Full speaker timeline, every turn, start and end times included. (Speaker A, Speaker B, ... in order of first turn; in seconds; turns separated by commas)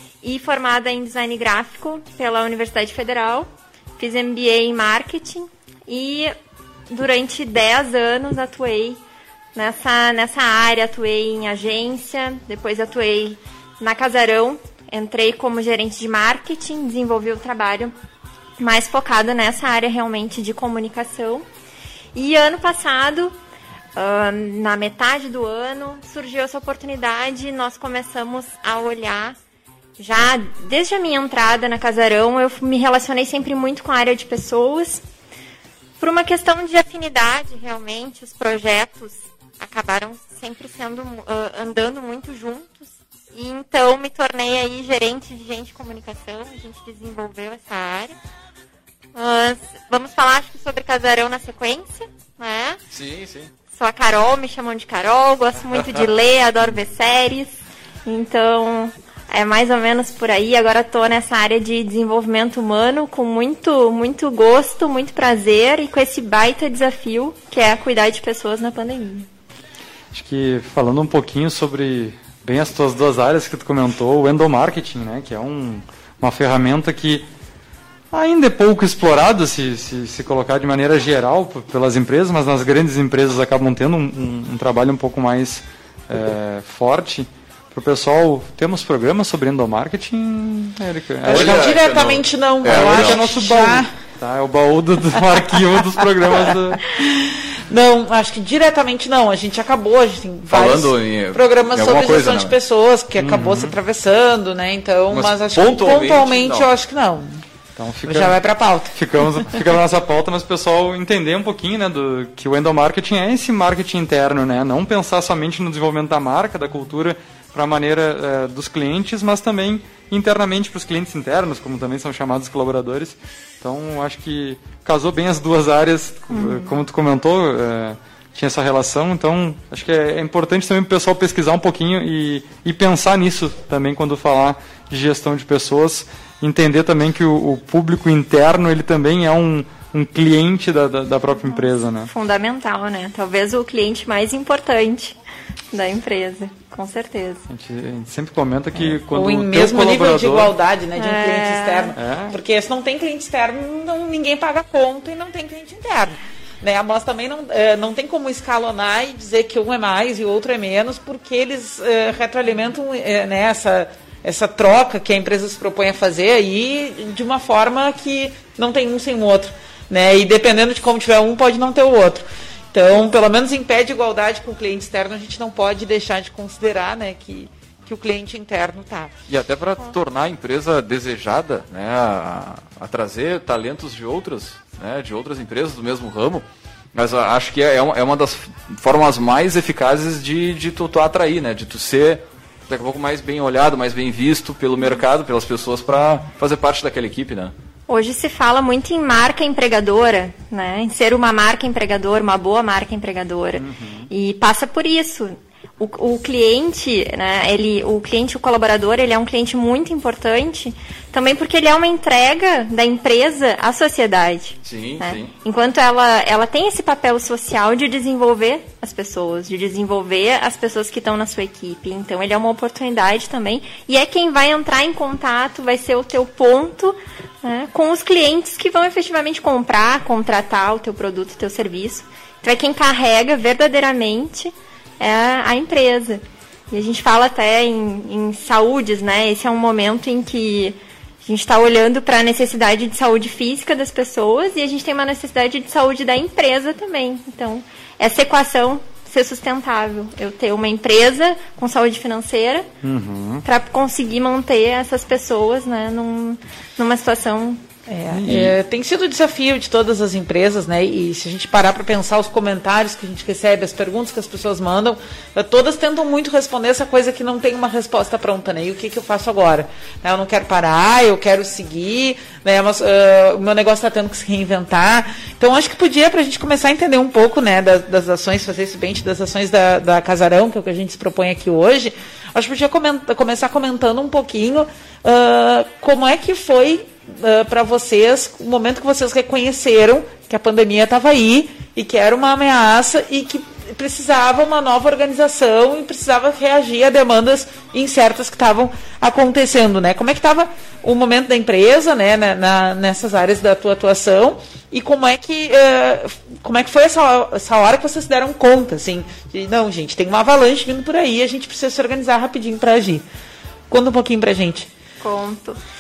Speaker A: 0.2-6.3, Speaker A: 6.9-9.0, Speaker A: 9.6-17.9, Speaker A: 18.6-21.4, Speaker A: 22.1-23.4, Speaker A: 24.0-29.4, Speaker A: 30.0-35.0, Speaker A: 36.0-48.1, Speaker A: 49.1-52.8, Speaker B: 52.9-53.5, Speaker A: 53.7-69.3, Speaker C: 70.1-77.3, Speaker C: 78.1-91.8, Speaker D: 91.2-93.9, Speaker B: 91.3-93.2, Speaker C: 92.6-96.8, Speaker D: 96.9-107.4, Speaker B: 100.5-102.5, Speaker C: 103.2-103.8, Speaker B: 105.1-106.7, Speaker C: 107.8-108.4, Speaker D: 108.0-109.0, Speaker C: 109.0-142.1, Speaker A: 126.3-126.8, Speaker A: 142.1-145.2, Speaker A: 145.7-147.4, Speaker C: 147.5-150.5, Speaker D: 148.8-179.1, Speaker A: 151.0-151.9, Speaker C: 151.9-152.4, Speaker B: 179.3-197.5, Speaker A: 197.9-252.7, Speaker C: 203.6-204.1, Speaker B: 214.7-215.3, Speaker C: 252.8-253.4, Speaker A: 253.4-257.6, Speaker D: 257.9-313.0, Speaker C: 258.1-258.6, Speaker D: 313.7-314.7, Speaker A: 315.0-315.6